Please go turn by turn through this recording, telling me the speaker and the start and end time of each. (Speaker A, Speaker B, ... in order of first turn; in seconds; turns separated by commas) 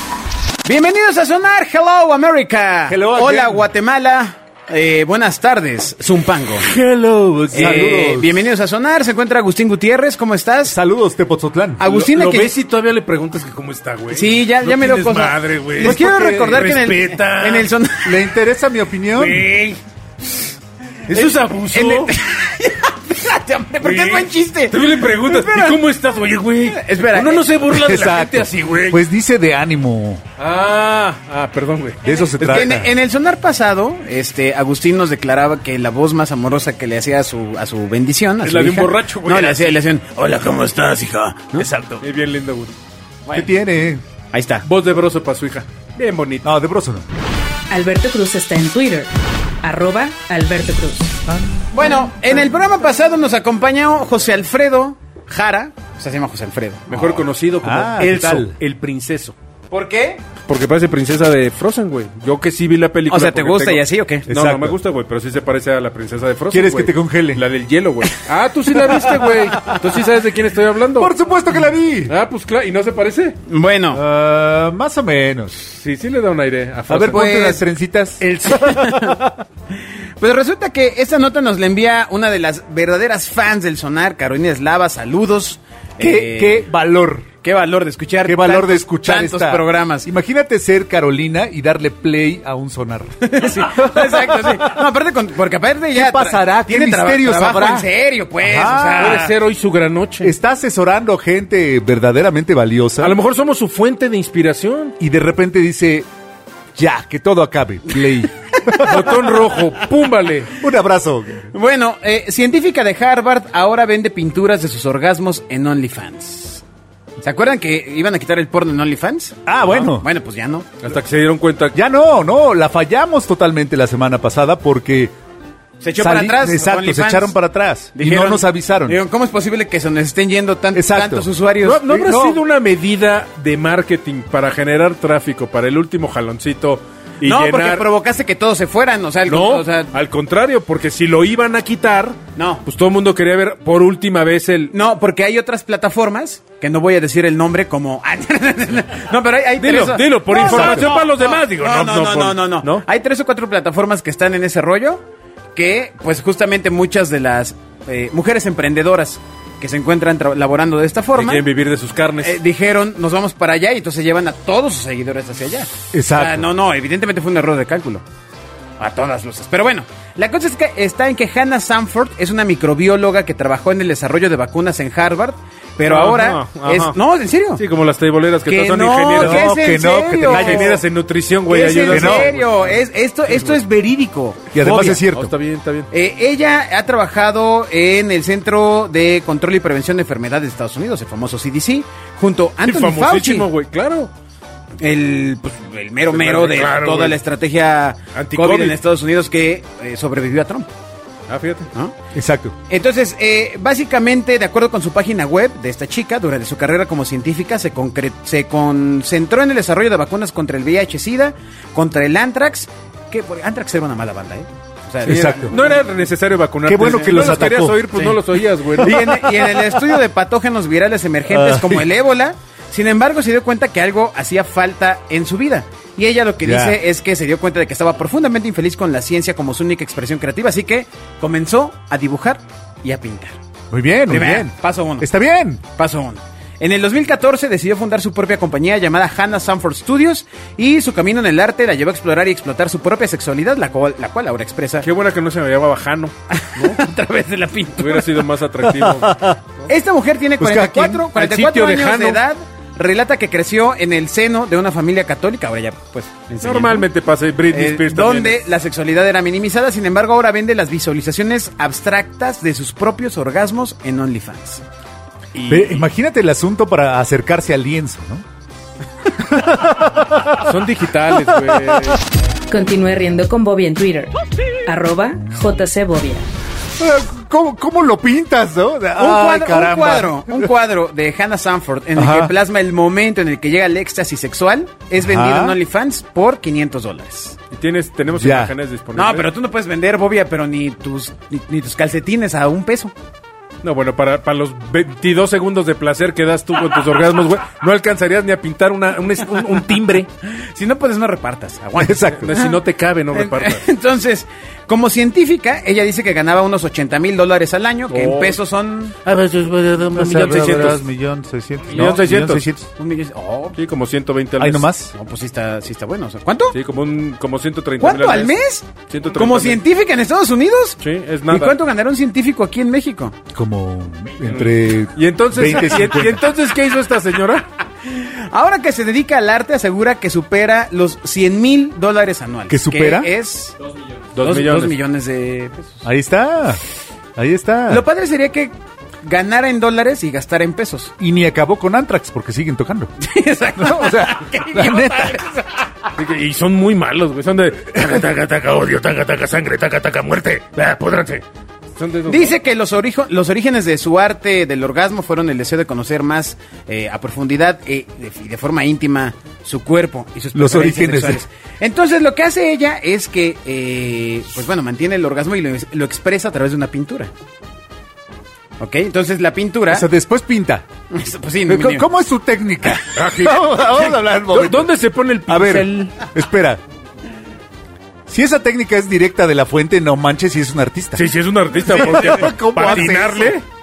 Speaker A: 0.6-6.7, Speaker B: 2.9-3.7, Speaker B: 6.6-8.3, Speaker A: 7.5-10.8, Speaker B: 10.6-11.8, Speaker A: 11.8-12.5, Speaker C: 11.8-17.7, Speaker A: 14.1-18.2, Speaker B: 15.8-16.1, Speaker B: 18.0-19.5, Speaker C: 19.1-19.8, Speaker A: 21.1-25.8, Speaker C: 21.1-22.1, Speaker C: 23.8-29.0, Speaker A: 26.7-27.6, Speaker B: 27.7-30.2, Speaker C: 30.4-32.0, Speaker B: 32.0-32.9, Speaker A: 32.4-42.0, Speaker C: 38.4-39.7, Speaker C: 41.6-42.7, Speaker A: 43.2-43.5, Speaker B: 43.3-44.0, Speaker A: 44.3-44.6, Speaker C: 44.6-46.5, Speaker B: 46.4-47.0, Speaker D: 47.7-49.1, Speaker D: 49.6-51.1, Speaker B: 51.3-51.6, Speaker A: 51.7-57.2, Speaker C: 56.9-59.3, Speaker B: 57.6-58.6, Speaker A: 59.7-60.2, Speaker C: 60.5-71.1, Speaker A: 63.1-64.2, Speaker B: 64.3-64.8, Speaker B: 66.5-67.4, Speaker A: 68.8-69.9, Speaker B: 71.0-72.1, Speaker C: 72.1-73.4, Speaker A: 73.5-74.0, Speaker B: 73.9-75.6, Speaker C: 75.7-77.5, Speaker B: 76.9-79.2, Speaker A: 77.1-77.6, Speaker C: 78.2-78.8, Speaker A: 78.5-79.2, Speaker A: 80.2-86.7, Speaker B: 86.0-87.3, Speaker A: 87.4-90.1, Speaker B: 88.2-94.8, Speaker A: 93.2-99.3, Speaker B: 95.9-97.9, Speaker B: 98.4-99.3, Speaker C: 99.0-100.3, Speaker B: 100.2-103.1, Speaker C: 103.0-104.9, Speaker B: 105.0-106.1, Speaker B: 106.7-109.1, Speaker A: 108.7-109.1, Speaker C: 108.8-110.5, Speaker B: 110.5-111.5, Speaker A: 111.5-116.6, Speaker A: 117.2-120.7, Speaker B: 119.5-120.1, Speaker C: 120.8-121.7, Speaker B: 121.7-125.1, Speaker A: 125.8-127.3, Speaker B: 126.0-129.0, Speaker A: 128.0-132.4, Speaker B: 130.7-131.3, Speaker C: 131.6-137.9, Speaker A: 137.2-139.9, Speaker C: 139.2-144.7, Speaker A: 142.4-142.6, Speaker A: 144.7-155.0, Speaker C: 149.6-152.8, Speaker B: 150.4-150.9, Speaker A: 155.5-161.4, Speaker C: 161.1-162.4, Speaker A: 162.2-168.0, Speaker B: 165.9-166.5, Speaker A: 168.8-177.6, Speaker C: 175.8-177.0, Speaker C: 177.6-183.6, Speaker A: 178.5-180.8, Speaker B: 179.1-180.8, Speaker A: 181.5-185.0, Speaker B: 181.9-182.3, Speaker B: 184.5-185.3, Speaker C: 184.6-185.9, Speaker A: 185.9-193.5, Speaker C: 192.6-194.1, Speaker A: 194.8-200.7, Speaker C: 196.1-197.2, Speaker C: 198.1-198.8, Speaker C: 201.3-201.7, Speaker B: 202.1-202.6, Speaker A: 202.7-215.7, Speaker B: 215.0-215.5, Speaker C: 215.0-219.2, Speaker B: 216.7-217.9, Speaker A: 216.8-218.2, Speaker A: 218.8-233.4, Speaker B: 218.8-219.8, Speaker B: 221.3-221.8, Speaker B: 226.4-226.8, Speaker B: 233.7-235.6, Speaker A: 234.1-235.1, Speaker A: 235.7-244.9, Speaker C: 244.8-246.8, Speaker A: 246.4-248.2, Speaker C: 247.8-249.3, Speaker B: 248.8-249.4, Speaker A: 249.7-256.9, Speaker B: 250.4-251.1, Speaker C: 251.1-252.2, Speaker C: 256.4-258.4, Speaker A: 257.5-264.6, Speaker C: 265.3-265.8, Speaker B: 265.5-268.2, Speaker B: 269.2-270.6, Speaker C: 270.3-272.0, Speaker B: 271.2-271.9, Speaker D: 272.5-276.3, Speaker B: 276.8-280.5, Speaker A: 278.9-287.4, Speaker B: 281.9-282.3, Speaker B: 285.0-285.6, Speaker C: 287.5-289.3, Speaker B: 288.1-288.5, Speaker A: 288.9-292.9, Speaker C: 293.6-300.1, Speaker A: 300.2-302.6, Speaker B: 301.8-302.3, Speaker C: 302.1-303.6, Speaker A: 303.1-308.9, Speaker C: 307.9-308.4, Speaker B: 309.0-312.7, Speaker C: 309.9-310.8, Speaker C: 311.7-312.4, Speaker A: 312.8-313.6, Speaker C: 313.5-314.7, Speaker B: 314.4-314.9, Speaker A: 314.9-316.6, Speaker C: 316.5-318.4, Speaker A: 317.8-323.1, Speaker C: 318.9-319.6, Speaker C: 320.8-321.6, Speaker B: 323.3-326.2, Speaker C: 324.3-327.4, Speaker A: 327.8-333.5, Speaker B: 332.5-333.1, Speaker C: 334.1-334.8, Speaker A: 334.2-335.8, Speaker B: 335.8-336.6, Speaker B: 337.1-337.8, Speaker A: 337.7-340.9, Speaker B: 341.0-342.9, Speaker A: 343.0-345.7, Speaker B: 343.6-345.2, Speaker C: 345.9-351.2, Speaker C: 351.8-352.4, Speaker A: 352.1-367.1, Speaker B: 360.3-361.2, Speaker A: 368.6-369.9, Speaker B: 369.7-370.6, Speaker A: 370.9-371.8, Speaker B: 371.5-374.7, Speaker C: 372.9-375.9, Speaker B: 375.3-376.6, Speaker B: 378.1-381.1, Speaker C: 380.9-383.4, Speaker B: 381.6-383.4, Speaker A: 382.6-382.9